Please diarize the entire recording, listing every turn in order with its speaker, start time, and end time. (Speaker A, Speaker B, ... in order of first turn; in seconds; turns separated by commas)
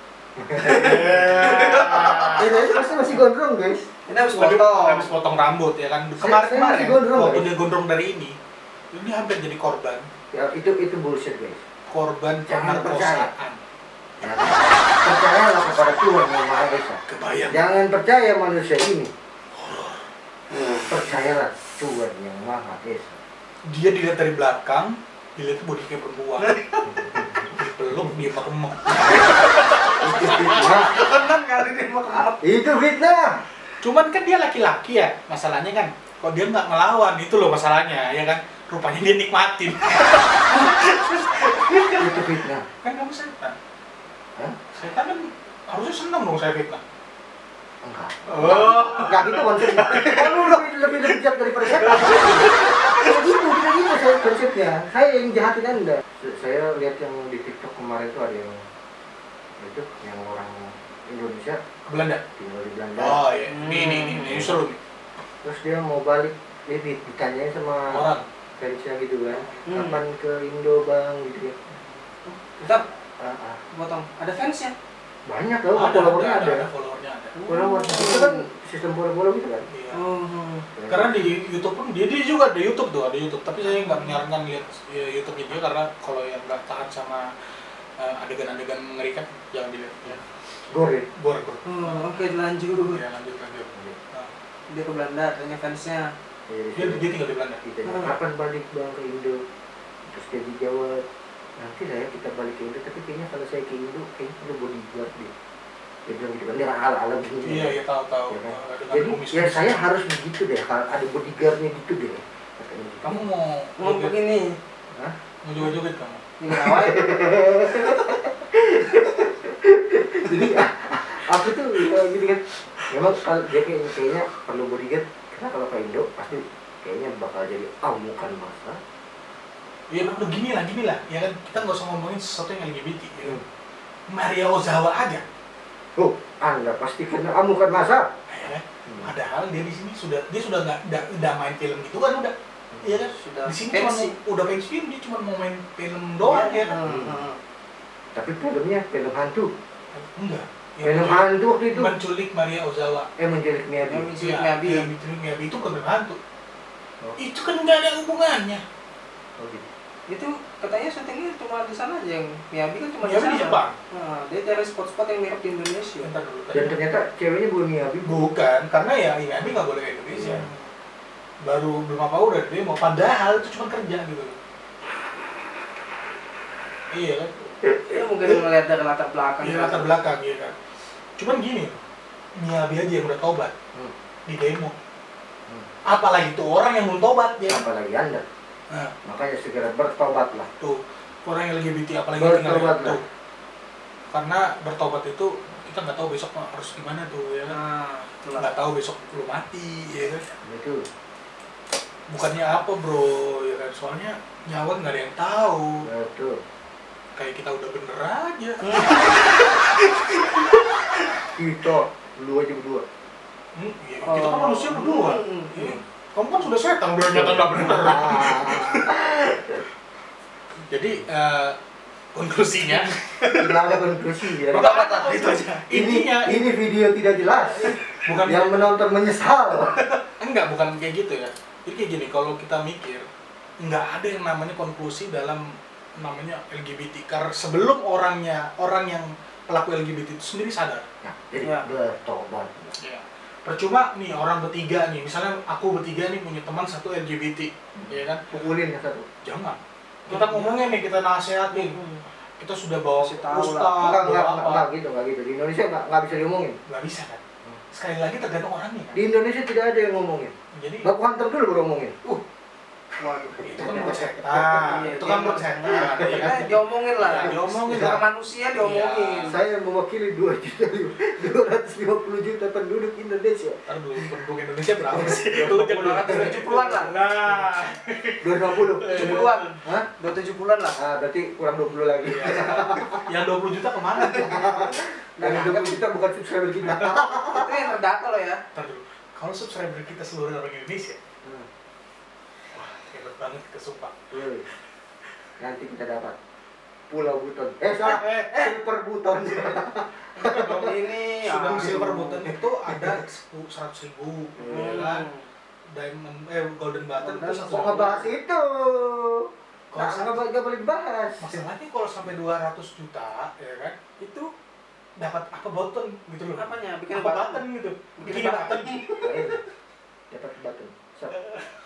Speaker A: 0.4-1.4, Speaker B: 0.6-2.8, Speaker C: 0.6-2.7, Speaker A: 2.3-3.9, Speaker C: 4.1-5.1, Speaker B: 4.3-8.3, Speaker A: 6.2-7.5, Speaker B: 8.9-10.1, Speaker A: 10.3-11.6, Speaker B: 11.9-13.6, Speaker A: 12.4-13.3, Speaker A: 14.2-19.1, Speaker B: 17.1-17.7, Speaker B: 19.6-20.0, Speaker A: 20.8-23.2, Speaker B: 23.6-26.5, Speaker C: 26.4-26.9, Speaker A: 26.9-28.1, Speaker B: 27.5-30.8, Speaker C: 29.0-29.8, Speaker A: 30.0-30.9, Speaker C: 30.4-32.4, Speaker A: 32.1-33.4, Speaker B: 33.8-42.3, Speaker A: 42.0-42.6, Speaker B: 42.8-43.5, Speaker B: 44.7-46.8, Speaker A: 47.8-58.6, Speaker B: 48.3-50.3, Speaker C: 49.8-50.5, Speaker B: 51.6-53.1, Speaker A: 59.6-61.6, Speaker B: 61.9-62.2, Speaker A: 62.4-63.2, Speaker B: 63.0-64.8, Speaker C: 63.4-64.5, Speaker A: 64.2-64.6, Speaker A: 65.4-71.6, Speaker B: 67.9-68.3, Speaker B: 69.3-70.0, Speaker C: 69.7-70.0, Speaker C: 72.6-72.8, Speaker A: 72.7-73.6, Speaker C: 73.7-74.7, Speaker A: 75.3-76.7, Speaker B: 75.7-78.1, Speaker C: 77.4-78.4, Speaker A: 77.5-79.7, Speaker B: 79.7-80.0, Speaker C: 79.9-80.7, Speaker A: 80.8-81.2, Speaker B: 80.9-87.3, Speaker C: 83.7-84.2, Speaker B: 88.0-90.2, Speaker A: 90.7-91.1, Speaker B: 91.2-92.2, Speaker C: 91.6-93.0, Speaker B: 92.8-94.3, Speaker C: 94.7-96.1, Speaker A: 96.5-99.4, Speaker B: 96.7-97.6, Speaker C: 97.8-98.1, Speaker A: 100.1-101.0, Speaker A: 101.6-105.3, Speaker A: 106.1-107.8, Speaker B: 107.4-109.8, Speaker A: 108.3-113.2, Speaker B: 113.0-114.2, Speaker C: 113.8-114.6, Speaker B: 115.4-116.2, Speaker C: 116.4-117.1, Speaker A: 116.5-128.8, Speaker B: 129.9-133.4, Speaker B: 134.1-135.2, Speaker A: 136.0-138.1, Speaker B: 138.3-146.8, Speaker C: 143.2-144.1, Speaker C: 146.2-147.4, Speaker A: 146.8-147.2, Speaker A: 148.1-149.5, Speaker B: 149.9-153.1, Speaker A: 150.8-151.9, Speaker A: 153.2-154.1, Speaker C: 153.9-154.9, Speaker B: 154.1-156.2, Speaker B: 157.2-158.6, Speaker A: 159.4-159.7, Speaker C: 160.1-166.1, Speaker B: 163.0-163.8, Speaker B: 166.0-166.8, Speaker A: 166.5-168.1, Speaker B: 168.0-170.6, Speaker A: 170.1-170.4, Speaker B: 171.4-174.3, Speaker B: 176.9-177.3, Speaker C: 177.9-180.0, Speaker B: 179.4-180.5, Speaker B: 181.2-181.8, Speaker B: 182.4-183.5, Speaker B: 184.3-184.7, Speaker B: 185.8-187.6, Speaker A: 187.5-188.2, Speaker A: 189.0-190.5, Speaker B: 190.6-193.0, Speaker A: 192.1-193.0, Speaker B: 194.1-197.6, Speaker C: 197.5-198.5, Speaker B: 198.4-200.3, Speaker A: 200.4-200.8, Speaker B: 202.1-205.8, Speaker A: 205.8-206.4, Speaker B: 207.2-210.6, Speaker C: 208.6-209.4, Speaker A: 211.3-212.8, Speaker B: 213.6-218.9, Speaker C: 214.0-215.8, Speaker A: 216.9-219.6, Speaker B: 220.7-221.6, Speaker B: 222.1-223.8, Speaker A: 223.3-224.7, Speaker B: 224.5-226.5, Speaker C: 224.5-225.6, Speaker A: 225.7-229.8, Speaker B: 227.3-228.7, Speaker B: 230.2-233.1, Speaker B: 233.6-240.8, Speaker A: 241.0-242.8, Speaker B: 242.8-248.4, Speaker A: 247.8-249.1, Speaker B: 249.2-251.8, Speaker C: 250.1-250.6, Speaker C: 251.5-252.0, Speaker B: 252.4-254.6, Speaker C: 253.0-253.8, Speaker A: 253.8-256.6, Speaker B: 256.7-257.2, Speaker B: 257.7-259.0, Speaker A: 258.9-262.0, Speaker B: 260.5-260.9, Speaker C: 263.0-264.0, Speaker B: 263.3-269.4, Speaker A: 263.5-264.8, Speaker C: 264.6-269.4, Speaker A: 265.6-266.4, Speaker A: 267.2-268.0, Speaker A: 269.3-274.1, Speaker B: 273.6-279.5, Speaker A: 274.9-276.3, Speaker C: 275.4-276.9, Speaker A: 278.2-279.9, Speaker C: 278.9-280.8, Speaker A: 280.8-283.0, Speaker B: 282.0-284.6, Speaker C: 284.0-284.5, Speaker A: 284.1-287.6, Speaker C: 285.2-285.8, Speaker B: 286.6-287.1, Speaker C: 287.2-288.4, Speaker B: 288.5-291.0, Speaker B: 292.5-293.9, Speaker A: 294.1-294.5, Speaker A: 295.4-296.1, Speaker A: 296.9-300.7, Speaker B: 297.8-298.5, Speaker B: 300.2-300.6, Speaker C: 300.2-302.3, Speaker B: 301.2-305.1, Speaker A: 302.7-302.9, Speaker A: 304.4-304.8, Speaker C: 304.5-305.3, Speaker B: 305.7-308.0, Speaker C: 307.0-308.1, Speaker A: 307.5-311.4, Speaker B: 309.7-310.2, Speaker B: 311.2-313.8, Speaker C: 314.0-314.3, Speaker B: 315.0-319.4, Speaker C: 316.3-319.2, Speaker A: 319.0-319.4, Speaker A: 320.1-321.2